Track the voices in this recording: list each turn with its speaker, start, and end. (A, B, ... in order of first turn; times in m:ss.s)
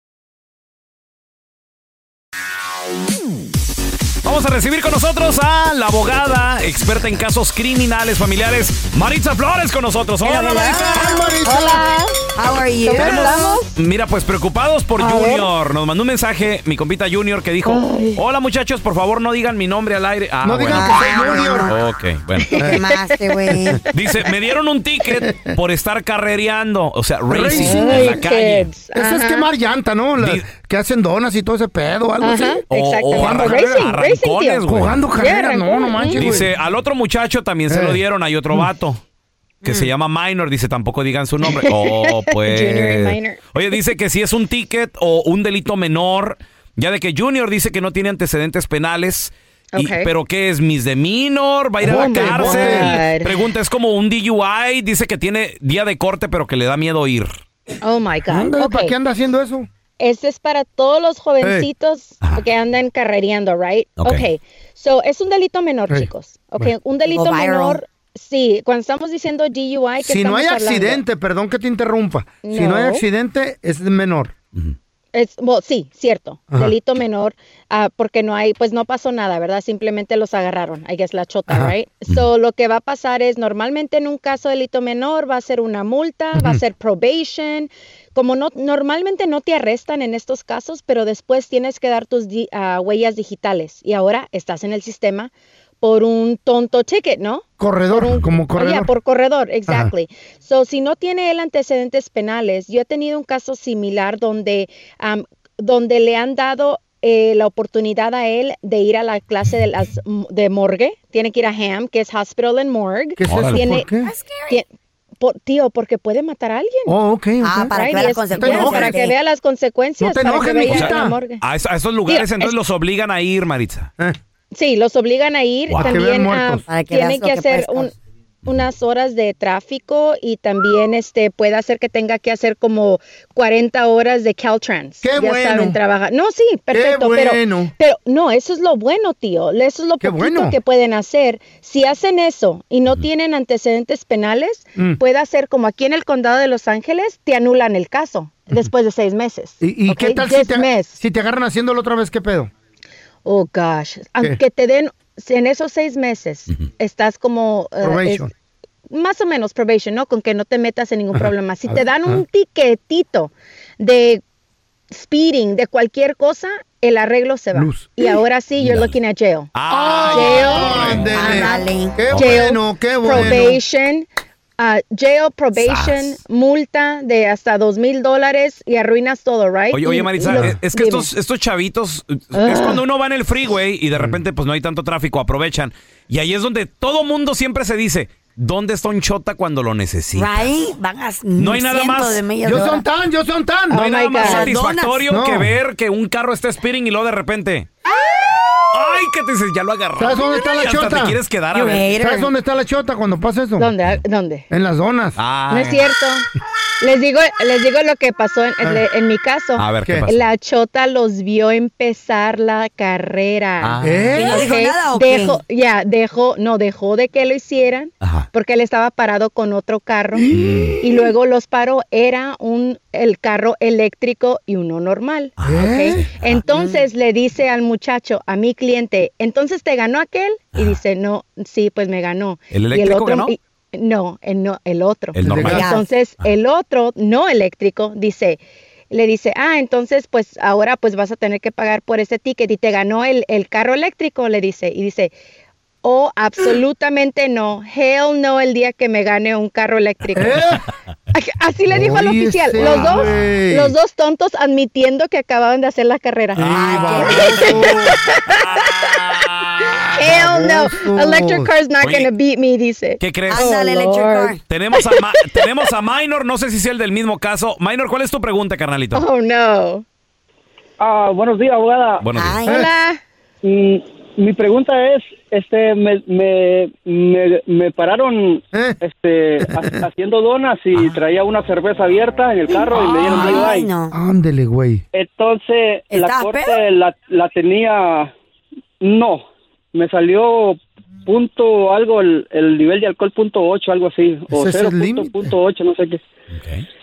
0:04.2-0:11.2 A
0:10.2-0:11.4 B
0:11.0-0:11.8 C
0:11.4-0:12.2 D
0:12.4-0:13.6 B
0:12.8-0:13.7 D
0:12.9-0:21.1 A
0:15.0-0:15.5 D
0:17.7-0:18.2 D
0:20.4-0:21.7 C
0:20.7-0:21.8 B
0:21.7-0:22.6 A
0:22.4-0:23.5 D
0:22.6-0:23.8 B
0:23.9-0:28.7 A
0:25.2-0:25.6 C
0:27.3-0:28.1 C
0:27.5-0:29.5 D
0:28.9-0:32.6 C
0:30.2-0:30.5 A
0:32.2-0:36.4 D
0:32.7-0:35.0 A
0:33.2-0:33.7 C
0:34.7-0:36.5 C
0:36.1-0:39.0 A
0:37.7-0:38.0 C
0:39.6-0:39.9 B
0:39.6-0:57.3 A
0:41.5-0:43.8 D
0:49.7-0:50.1 D
0:51.8-0:53.0 C
0:51.8-0:53.3 D
0:57.8-0:59.0 D
0:58.3-0:59.7 C
1:00.0-1:11.0 D
1:01.4-1:01.7 C
1:04.0-1:04.3 A
1:05.9-1:06.7 C
1:07.1-1:07.8 B
1:10.0-1:14.4 C
1:12.4-1:13.0 D
1:15.1-1:53.9 D
1:16.5-1:16.8 C
1:21.5-1:21.7 C
1:37.6-1:38.9 C
1:39.7-1:39.9 C
1:53.2-1:54.1 C
1:53.2-1:53.6 A
1:54.0-1:54.6 B
1:55.2-1:57.0 D
1:56.9-1:57.7 C
1:57.4-1:59.2 B
1:57.7-2:01.4 D
1:58.3-1:59.1 C
2:00.0-2:01.2 C
2:00.7-2:03.9 A
2:02.1-2:02.6 D
2:04.5-2:07.9 D
2:05.7-2:06.6 C
2:06.7-2:07.9 B
2:08.5-2:31.0 D
2:15.0-2:15.8 C
2:16.7-2:17.7 C
2:20.0-2:20.6 C
2:29.6-2:32.5 C
2:33.2-2:38.2 D
2:37.8-2:38.3 C
2:38.9-2:44.2 D
2:41.1-2:42.2 C
2:44.9-2:49.5 D
2:47.5-2:48.2 C
2:48.6-2:49.0 A
2:49.5-2:51.4 A
2:49.7-2:53.6 C
2:50.1-2:51.4 D
2:51.1-2:52.1 B
2:52.1-2:52.4 A
2:52.1-2:54.1 D
2:54.6-3:01.1 D
2:55.5-2:56.2 A
2:59.7-3:10.5 A
3:00.3-3:00.6 C
3:02.3-3:02.8 D
3:10.1-3:12.8 B
3:11.4-3:12.2 A
3:12.4-3:13.8 C
3:13.7-3:14.5 D
3:13.8-3:17.7 A
3:14.2-3:15.0 B
3:15.1-3:15.6 C
3:18.7-3:22.0 A
3:20.0-3:21.2 C
3:21.5-3:22.3 B
3:21.9-3:23.7 C
3:23.6-3:24.5 D
3:24.5-3:25.2 C
3:25.2-3:25.9 A
3:25.5-3:26.3 D
3:26.8-3:40.3 D
3:29.6-3:30.2 A
3:33.6-3:34.2 A
3:33.8-3:34.4 C
3:34.1-3:35.4 B
3:38.0-3:38.3 A
3:40.3-3:40.8 C
3:40.3-3:40.8 A
3:40.8-3:58.4 D
3:45.4-3:46.4 A
3:45.4-3:46.1 C
3:46.5-3:46.9 B
3:52.5-3:53.3 A
3:55.2-3:55.7 A
3:55.3-3:55.7 C
3:55.4-3:55.8 B
3:58.9-4:05.1 D
4:05.8-4:10.4 D
4:10.2-4:10.6 C
4:11.1-4:19.0 D
4:11.7-4:13.8 C
4:12.6-4:13.1 A
4:16.4-4:18.0 C
4:16.4-4:17.7 B
4:18.3-4:19.8 A
4:19.7-4:21.5 C
4:20.0-4:24.3 D
4:21.8-4:22.1 A
4:23.0-4:23.5 A
4:23.3-4:24.4 B
4:24.5-4:29.1 A
4:28.9-4:29.8 D
4:30.8-4:32.1 E
4:32.0-4:32.4 A
4:32.2-4:32.7 B
4:32.5-4:33.0 D
4:33.4-4:43.8 E
4:38.5-4:38.8 C
4:39.4-4:39.7 C
4:42.5-4:44.0 B
4:43.2-4:44.8 C
4:44.9-4:48.1 E
4:45.9-4:46.6 B
4:48.8-4:56.0 E
4:54.3-4:55.3 C
4:56.3-4:56.6 A